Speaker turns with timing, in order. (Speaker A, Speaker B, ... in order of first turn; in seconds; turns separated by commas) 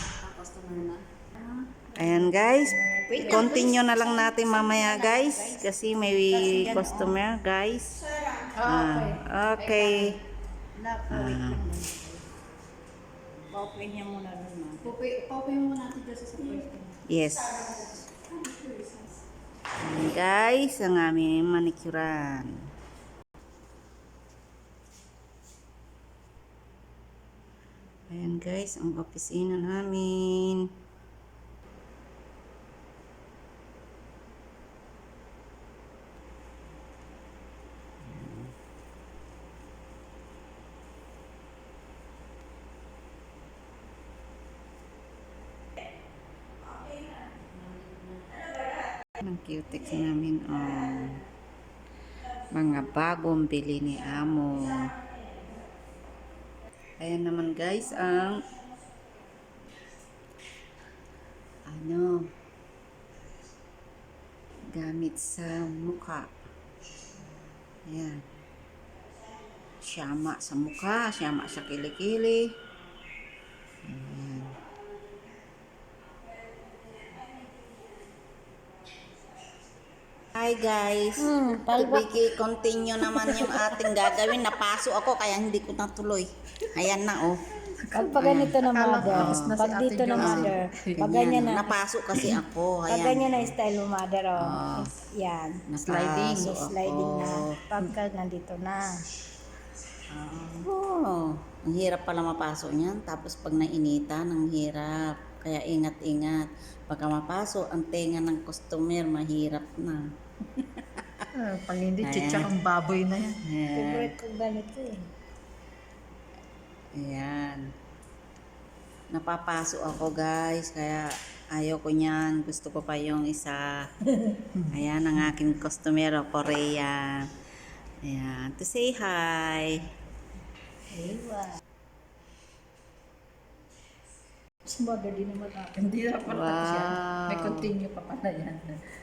Speaker A: 0.2-1.0, Speaker A: 1.7-3.7, Speaker B: 1.9-8.0, Speaker C: 3.1-7.2, Speaker A: 8.2-10.2, Speaker B: 8.6-10.2, Speaker C: 10.7-12.2, Speaker B: 11.1-11.6, Speaker C: 13.5-14.9, Speaker A: 14.8-19.2, Speaker B: 17.1-18.0, Speaker B: 19.8-22.5, Speaker B: 28.1-30.7, Speaker B: 38.0-38.5, Speaker B: 49.2-51.2, Speaker B: 52.5-54.9, Speaker B: 57.0-58.5, Speaker B: 61.7-62.3, Speaker B: 64.7-66.3, Speaker B: 67.9-68.2, Speaker B: 69.8-72.5, Speaker B: 73.8-74.6, Speaker B: 80.3-87.4, Speaker C: 81.2-82.3, Speaker A: 83.4-84.3, Speaker A: 87.8-91.0, Speaker C: 87.9-91.8, Speaker B: 88.1-89.5, Speaker B: 90.1-93.5, Speaker C: 92.9-95.7, Speaker B: 94.4-94.9, Speaker B: 95.7-97.7, Speaker A: 95.8-96.5, Speaker C: 96.2-99.0, Speaker C: 100.1-100.7, Speaker B: 100.6-111.2, Speaker A: 111.3-113.4, Speaker B: 112.0-112.5, Speaker B: 113.4-114.1, Speaker C: 113.7-115.0, Speaker B: 116.9-117.7, Speaker B: 119.1-123.9, Speaker C: 124.2-124.5, Speaker B: 124.7-127.3, Speaker B: 128.0-129.8, Speaker C: 130.9-131.6, Speaker A: 134.6-138.8, Speaker B: 136.2-137.7